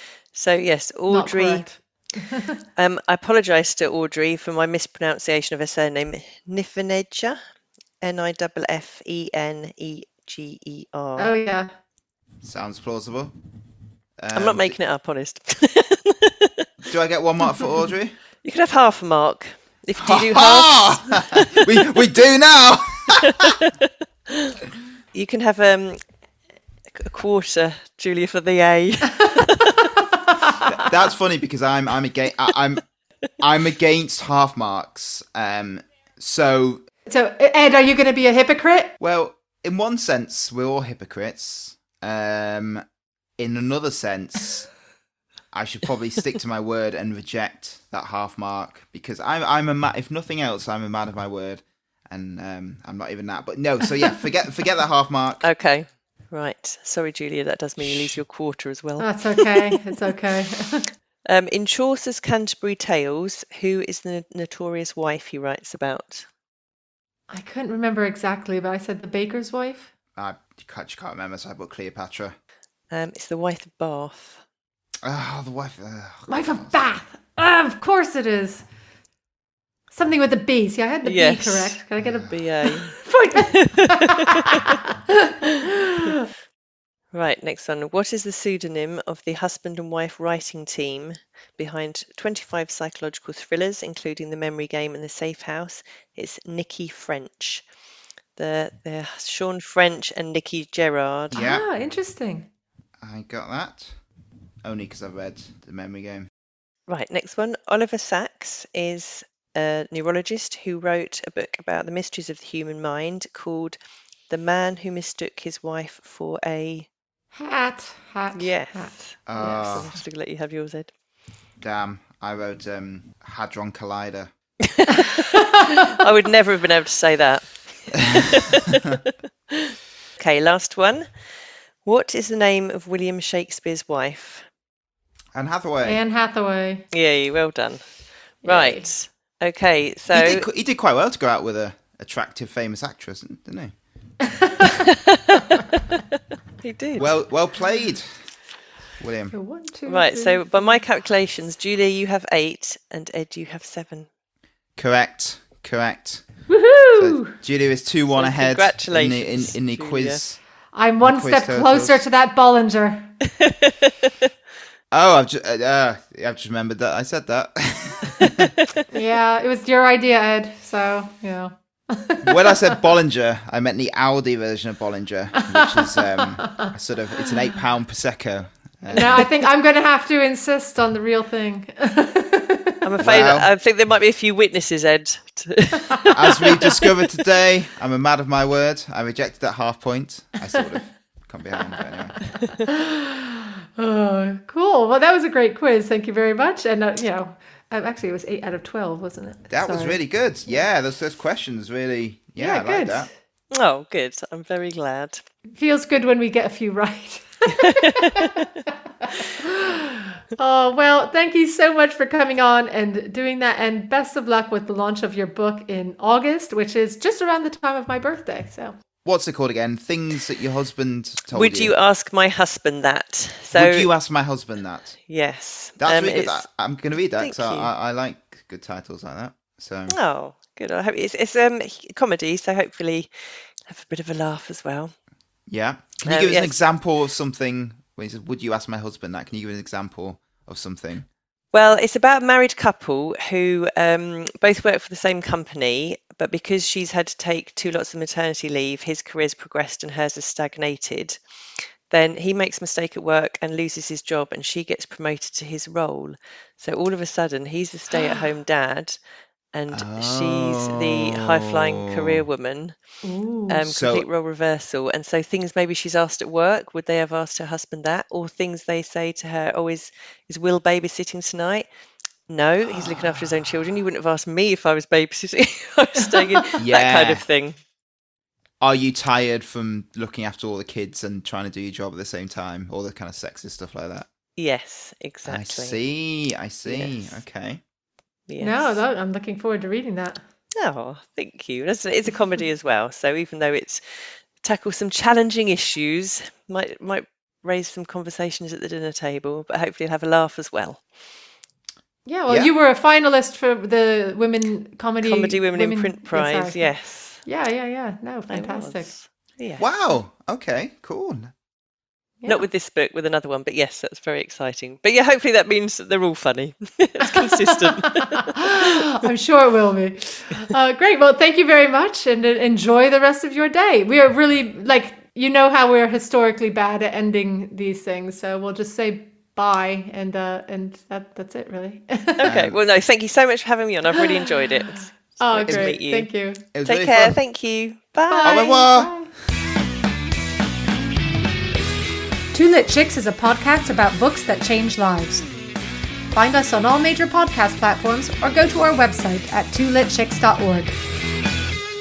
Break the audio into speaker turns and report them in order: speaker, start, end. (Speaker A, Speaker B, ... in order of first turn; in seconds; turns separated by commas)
Speaker A: 0.3-1.7, Speaker B: 1.1-2.5, Speaker A: 2.8-7.4, Speaker A: 8.0-11.3, Speaker B: 11.2-11.7, Speaker C: 12.4-13.3, Speaker C: 14.2-14.8, Speaker A: 14.3-16.7, Speaker C: 16.9-18.2, Speaker A: 18.4-21.7, Speaker C: 20.0-23.6, Speaker A: 23.2-24.6, Speaker A: 25.1-26.0, Speaker A: 26.9-30.0, Speaker C: 30.6-32.8, Speaker C: 33.4-36.8, Speaker B: 37.1-38.9, Speaker C: 39.0-42.8, Speaker C: 43.4-44.7, Speaker C: 45.5-55.5, Speaker A: 55.4-59.8, Speaker B: 59.0-60.9, Speaker A: 61.3-66.3, Speaker B: 67.3-69.9, Speaker C: 70.2-72.4, Speaker A: 72.9-74.4, Speaker C: 75.0-76.8, Speaker B: 76.3-78.7, Speaker B: 79.9-86.2, Speaker A: 81.0-84.8, Speaker C: 82.0-82.3, Speaker A: 87.1-97.7, Speaker A: 98.4-101.5, Speaker B: 101.3-102.5, Speaker C: 101.3-101.7, Speaker C: 103.0-103.9, Speaker C: 104.6-106.3, Speaker A: 106.9-113.8, Speaker A: 114.3-116.9, Speaker B: 117.3-119.5, Speaker A: 118.3-120.9, Speaker C: 119.3-119.9, Speaker C: 121.6-124.3, Speaker A: 124.7-128.9, Speaker A: 129.5-131.1, Speaker A: 131.8-134.4, Speaker C: 135.3-136.0, Speaker B: 135.8-136.9, Speaker A: 136.9-137.8, Speaker A: 138.4-140.5, Speaker B: 138.4-138.8, Speaker C: 140.1-143.7, Speaker B: 144.4-144.7, Speaker A: 144.6-146.0, Speaker A: 146.6-147.1, Speaker C: 147.0-148.1, Speaker C: 149.0-149.3, Speaker B: 149.3-150.8, Speaker A: 149.9-154.1, Speaker C: 154.8-156.2, Speaker B: 156.5-157.3, Speaker C: 156.9-160.4, Speaker A: 158.1-160.2, Speaker B: 160.7-163.1, Speaker C: 161.0-162.1, Speaker A: 163.4-163.9, Speaker C: 164.9-168.5, Speaker B: 168.9-172.9, Speaker C: 172.2-179.3, Speaker B: 175.4-176.0, Speaker B: 178.9-182.9, Speaker A: 182.8-186.7, Speaker C: 183.0-183.5, Speaker B: 185.9-186.8, Speaker C: 186.1-192.2, Speaker B: 192.7-200.7, Speaker C: 199.5-203.1, Speaker B: 202.4-203.1, Speaker A: 203.5-205.2, Speaker B: 205.5-208.4, Speaker A: 207.6-208.5, Speaker B: 209.1-218.7, Speaker C: 219.1-221.7, Speaker A: 221.3-223.9, Speaker C: 223.5-225.0, Speaker A: 225.1-226.5, Speaker C: 225.8-230.0, Speaker A: 227.2-227.7, Speaker A: 229.9-233.1, Speaker A: 233.7-234.9, Speaker C: 235.5-241.1, Speaker A: 236.1-236.6, Speaker A: 241.5-251.2, Speaker A: 251.9-259.0, Speaker A: 259.5-262.8, Speaker C: 259.7-262.2, Speaker B: 263.0-263.7, Speaker A: 263.5-271.7, Speaker C: 263.7-264.1, Speaker A: 272.3-277.6, Speaker C: 272.8-273.2, Speaker B: 276.0-276.6, Speaker C: 276.6-277.3, Speaker C: 278.6-284.1, Speaker A: 284.4-285.8, Speaker C: 285.3-287.6, Speaker A: 286.6-287.2, Speaker A: 288.3-288.8, Speaker B: 288.4-290.2, Speaker A: 290.6-293.8, Speaker A: 294.4-300.8, Speaker B: 302.1-308.9, Speaker A: 305.0-307.2, Speaker A: 308.3-309.6, Speaker C: 309.6-311.3, Speaker A: 312.2-318.3, Speaker B: 317.2-317.7, Speaker B: 318.3-332.4, Speaker A: 332.2-336.1, Speaker C: 332.2-332.6, Speaker B: 333.9-334.5, Speaker B: 335.2-336.5, Speaker C: 336.5-337.2, Speaker A: 336.6-338.3, Speaker B: 338.1-339.1, Speaker C: 338.2-338.9, Speaker B: 342.3-345.3, Speaker B: 346.1-350.7